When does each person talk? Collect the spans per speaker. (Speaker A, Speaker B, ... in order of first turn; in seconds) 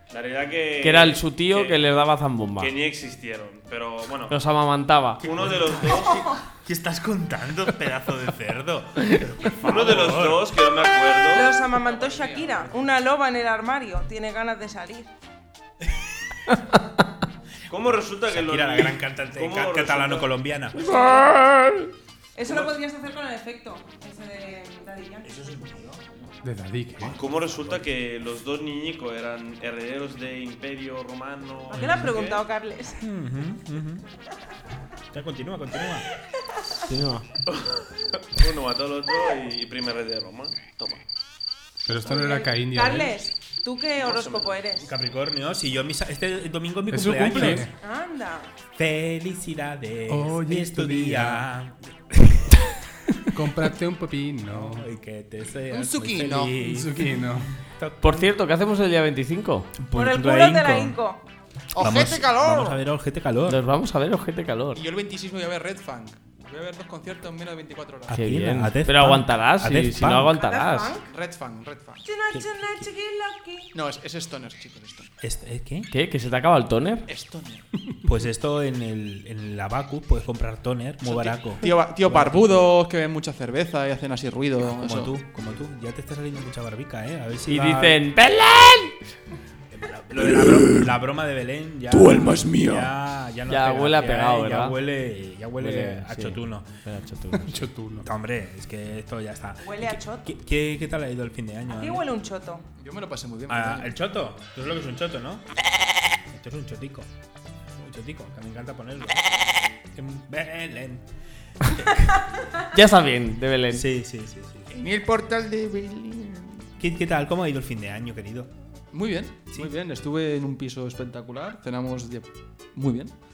Speaker A: 0.1-1.8, 2.6-4.3, 5.2-6.2, 9.6-11.6, 17.7-20.3, 27.0-32.4, 37.5-37.8, 38.3-41.0, 44.0-44.5
Speaker B: 0.8-2.7, 4.3-5.2, 21.1-21.8, 36.9-37.2, 58.0-59.7, 63.5-64.8, 68.1-70.9, 75.9-77.0, 87.5-89.0, 93.5-94.7, 95.6-97.7, 112.7-113.8
Speaker C: 5.2-10.5, 17.7-21.0, 22.4-22.7, 25.2-26.0, 27.0-27.8, 31.7-32.1, 33.0-34.0, 35.1-36.1, 44.8-47.7, 48.8-51.8, 54.5-58.3, 59.8-61.0, 61.8-63.6, 68.1-70.3, 72.3-72.8, 75.2-75.9, 78.0-82.6, 84.7-88.0, 89.7-96.7, 98.0-102.0, 103.5-105.4, 106.3-107.1, 107.8-109.2, 109.9-111.0, 111.6-112.2, 113.7-114.7, 116.8-118.5
Speaker D: 6.0-6.3, 11.3-15.1, 20.8-21.2, 22.4-25.2, 31.7-33.0, 42.0-44.9, 47.8-48.5, 59.9-61.2, 70.3-71.1, 72.0-73.7, 99.6-100.3, 101.7-102.6
Speaker E: 12.1-12.5, 55.7-56.6, 61.8-62.8, 64.7-68.2, 71.1-72.0, 73.7-75.1, 77.1-77.7, 81.0-85.1, 90.2-90.8, 91.9-92.9, 102.8-103.9, 114.7-116.5, 118.9-123.1
Speaker F: 26.4-27.1, 41.9-43.2, 46.9-47.7, 50.1-51.4, 53.3-54.9, 56.6-57.5, 97.4-98.1